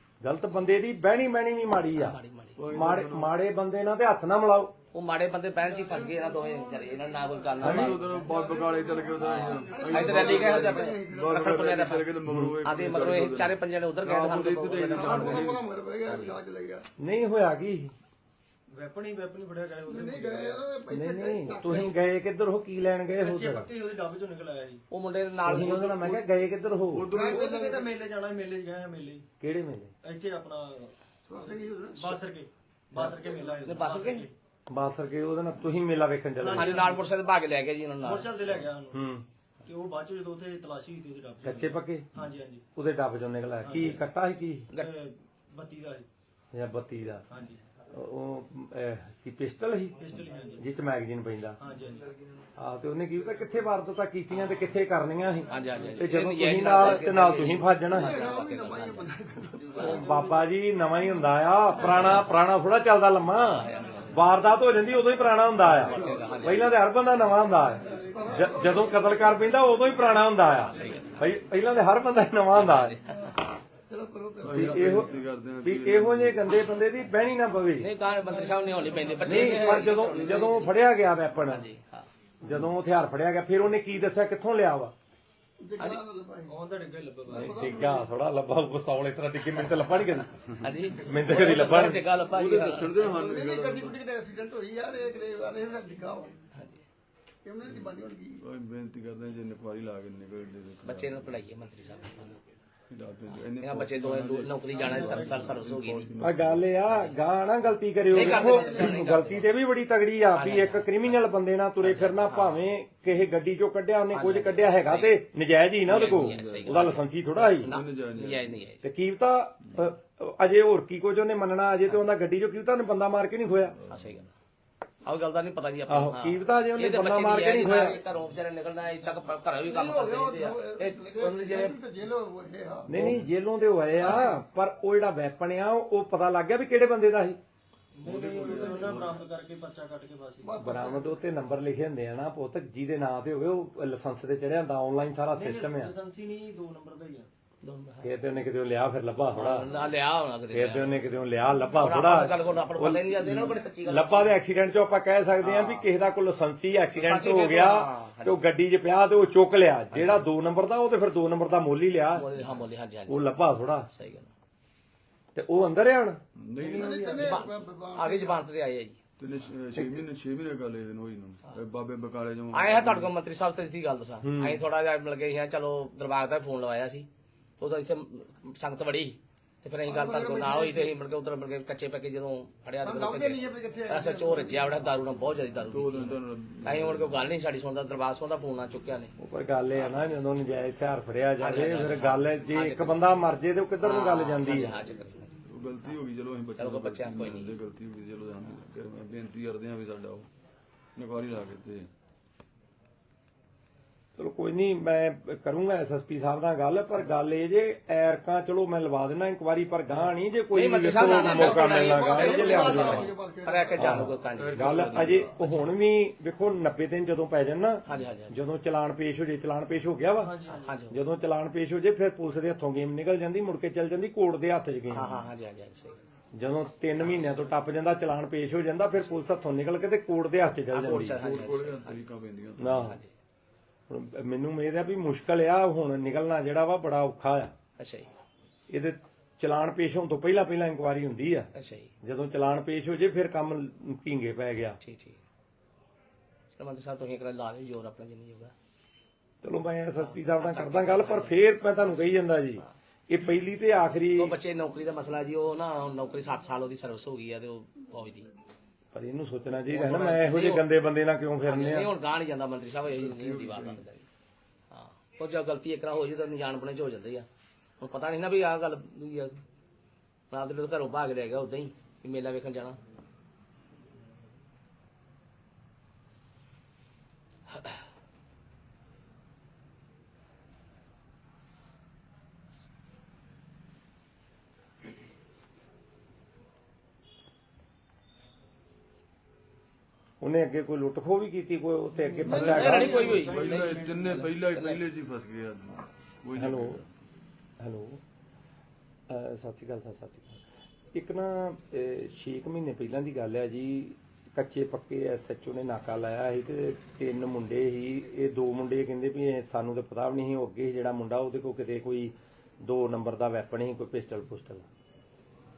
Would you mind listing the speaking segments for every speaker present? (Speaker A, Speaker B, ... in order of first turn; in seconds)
Speaker A: 0.2-4.7, 7.6-8.0, 12.2-12.6, 17.0-17.9, 20.9-23.7, 25.4-27.1, 29.4-29.9, 34.7-36.8, 38.9-39.2, 41.4-42.1, 42.8-44.7, 46.5-47.2, 47.9-50.0, 50.6-51.6, 52.6-58.2, 59.8-73.0, 74.5-77.9, 79.2-81.7, 82.4-84.9, 87.3-90.3, 91.0-92.0, 106.2-117.7, 118.8-123.8, 125.9-128.0, 132.9-137.4, 140.6-145.9, 148.0-149.7, 150.5-162.3, 163.1-163.9, 165.3-166.2, 169.8-170.0, 174.2-174.6, 189.2-194.8, 204.2-213.1, 213.8-220.3, 220.9-225.2, 226.3-231.2, 232.6-233.0, 233.9-237.5, 238.7-241.5, 242.0-244.8, 249.4-254.3, 258.9-261.9, 290.2-293.2, 296.3-296.8, 297.6-298.0, 299.1-300.4, 300.9-314.7
Speaker B: 1.9-2.6, 4.9-8.3, 9.2-12.1, 12.6-15.6, 24.9-26.2, 33.6-34.3, 36.5-38.6, 54.3-54.6, 55.5-59.1, 63.3-64.3, 65.6-66.8, 70.6-71.3, 72.5-73.4, 77.8-80.8, 81.4-82.1, 89.6-93.0, 96.5-96.8, 100.8-102.4, 103.6-106.1, 106.8-107.2, 108.1-109.5, 110.3-111.2, 111.8-112.7, 114.1-115.2, 115.8-118.8, 123.9-124.3, 125.0-131.8, 147.6-148.1, 149.3-151.0, 151.8-154.4, 155.4-155.9, 156.9-158.4, 159.9-160.3, 162.1-163.4, 163.9-164.3, 166.7-169.0, 172.5-177.1, 177.6-189.1, 189.7-190.1, 191.4-193.0, 193.8-195.3, 196.6-197.6, 210.5-215.8, 217.8-218.4, 220.5-221.0, 224.9-226.0, 230.7-232.0, 232.6-233.1, 237.8-238.1, 241.5-241.9, 244.8-245.2, 246.6-248.5, 250.0-251.4, 254.1-258.3, 259.7-260.6, 261.4-264.1, 264.7-267.3, 267.8-269.4, 270.3-272.8, 292.2-294.9
Speaker C: 2.6-3.3, 7.6-16.3, 25.5-25.9, 26.9-27.4, 74.4-76.7, 80.1-80.5, 91.7-94.0, 97.7-101.4, 102.9-106.7, 115.8-117.0, 117.6-118.7, 123.8-124.2, 132.9-133.2, 138.0-139.2, 166.4-167.4, 169.2-173.1, 185.6-187.3, 195.4-200.3, 201.0-201.9, 214.3-215.3, 231.1-232.8, 262.8-263.8, 292.3-296.9
Speaker D: 5.8-6.2, 8.0-9.1, 9.6-11.4, 14.9-16.9, 19.9-21.9, 27.1-27.9, 31.3-32.2, 57.9-60.3, 66.1-66.3, 68.0-69.3, 73.9-75.0, 85.6-86.5, 87.3-88.0, 93.0-96.3, 97.4-98.4, 129.7-133.1, 138.5-139.0, 140.4-141.2, 166.7-168.4, 179.9-180.9, 182.8-184.8, 211.0-214.2, 292.3-292.6
Speaker E: 18.7-20.7, 23.1-24.8, 27.1-29.2, 30.0-34.3, 36.4-37.0, 38.0-39.0, 39.6-42.6, 43.6-44.0, 44.7-46.1, 47.3-47.6, 50.0-50.7, 51.6-52.1, 86.5-87.6, 104.7-105.5, 108.6-108.8, 138.0-140.8, 145.3-147.3, 220.2-220.7, 292.7-294.4